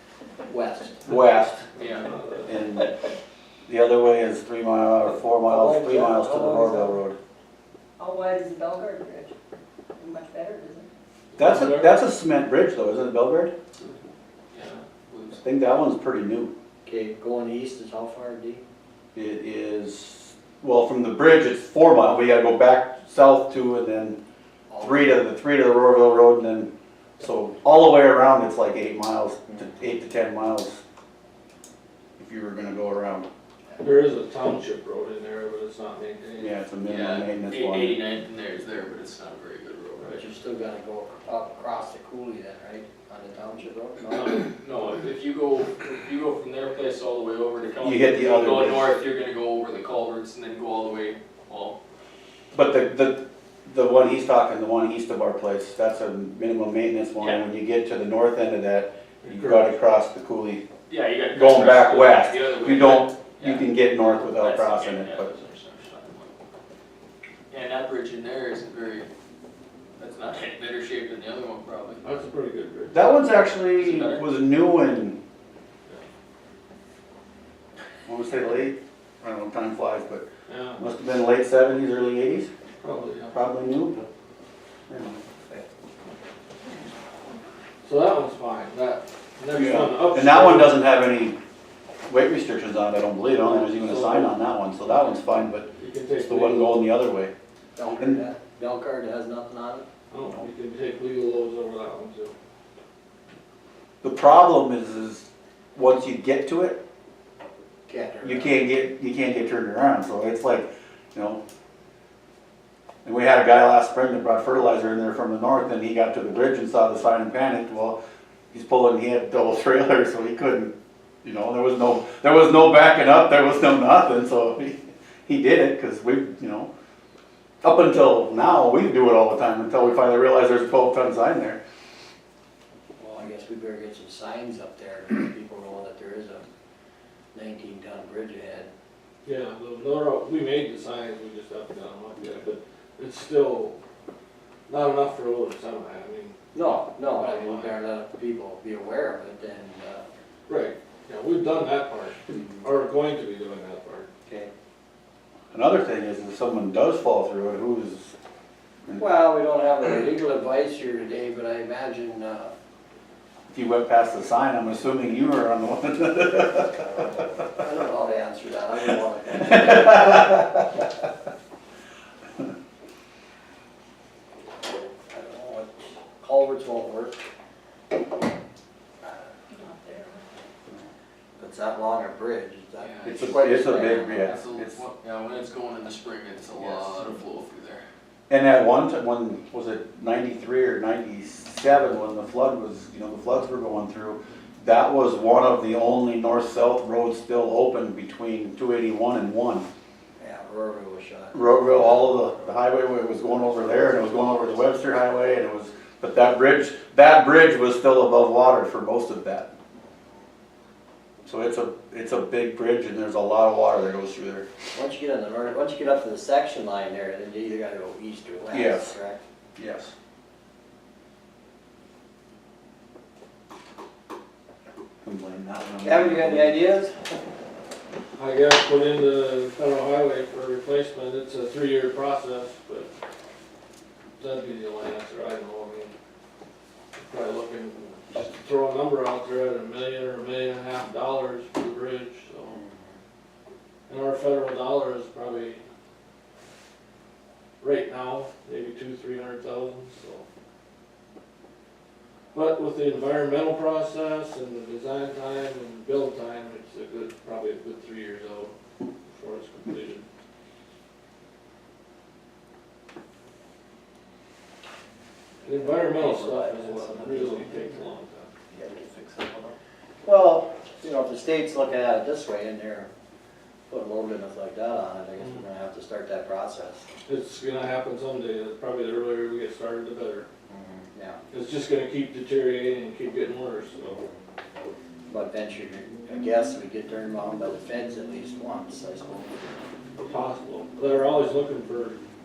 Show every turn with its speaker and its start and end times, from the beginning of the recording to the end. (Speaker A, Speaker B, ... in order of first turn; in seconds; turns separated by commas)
Speaker A: 0.5-1.0, Speaker B: 1.1-1.6, Speaker C: 1.8-2.1, Speaker D: 1.9-2.5, Speaker B: 2.5-2.9, Speaker B: 3.7-7.2, Speaker A: 5.5-7.0, Speaker E: 8.0-9.3, Speaker E: 10.0-10.9, Speaker D: 11.4-12.0, Speaker B: 11.4-13.5, Speaker C: 14.5-15.4, Speaker B: 15.4-16.5, Speaker A: 16.8-18.6, Speaker B: 19.1-24.2, Speaker A: 24.7-25.2, Speaker B: 24.8-30.8, Speaker B: 32.2-33.3, Speaker D: 33.8-36.5, Speaker B: 36.4-38.0, Speaker C: 36.9-40.3, Speaker A: 40.2-44.4, Speaker C: 44.1-51.8, Speaker B: 47.8-48.9, Speaker B: 52.5-60.6, Speaker C: 57.2-57.5, Speaker D: 59.2-59.8, Speaker C: 60.9-66.3, Speaker B: 61.3-65.3, Speaker C: 67.5-69.1, Speaker C: 70.0-72.0, Speaker D: 72.0-73.2, Speaker B: 72.9-75.2, Speaker C: 73.7-74.3, Speaker B: 78.1-80.2, Speaker D: 80.5-80.8, Speaker B: 80.8-82.5, Speaker D: 82.8-83.4, Speaker B: 83.3-84.0, Speaker B: 84.9-85.2, Speaker D: 87.8-90.8, Speaker B: 89.5-91.4, Speaker B: 92.1-95.7, Speaker D: 93.4-94.4, Speaker D: 95.8-96.9, Speaker B: 96.2-97.3, Speaker A: 97.8-99.9, Speaker D: 100.1-102.3, Speaker B: 104.0-106.8, Speaker A: 107.9-108.6, Speaker B: 108.2-111.4, Speaker B: 113.0-118.0, Speaker B: 118.5-120.7, Speaker B: 121.2-126.7, Speaker B: 127.6-131.6, Speaker A: 133.0-136.4, Speaker A: 137.3-138.7, Speaker D: 139.2-143.8, Speaker D: 144.7-147.7, Speaker A: 146.5-150.1, Speaker D: 150.5-154.1, Speaker A: 152.3-152.7, Speaker B: 155.5-158.1, Speaker A: 159.0-162.5, Speaker B: 163.5-166.9, Speaker A: 167.6-170.5, Speaker A: 175.1-177.2, Speaker E: 179.5-180.2, Speaker A: 181.4-184.4, Speaker C: 182.8-183.3, Speaker B: 183.0-184.8, Speaker C: 183.9-187.8, Speaker B: 188.3-199.7, Speaker A: 200.2-204.6, Speaker B: 201.3-209.5, Speaker B: 211.3-214.5, Speaker A: 214.7-219.2, Speaker B: 218.5-218.9, Speaker B: 219.6-219.9, Speaker B: 225.0-226.6, Speaker A: 225.8-227.2, Speaker D: 228.2-232.9, Speaker D: 234.2-235.9, Speaker D: 237.0-242.6, Speaker A: 242.6-242.8, Speaker D: 243.9-245.6, Speaker D: 247.6-250.2, Speaker D: 252.3-258.5, Speaker D: 259.1-260.1, Speaker D: 265.4-268.3, Speaker A: 265.6-267.5, Speaker A: 268.5-272.9, Speaker A: 273.7-276.9, Speaker D: 277.1-280.3, Speaker A: 280.5-281.2, Speaker D: 281.3-284.0, Speaker A: 285.1-289.6, Speaker D: 290.0-292.0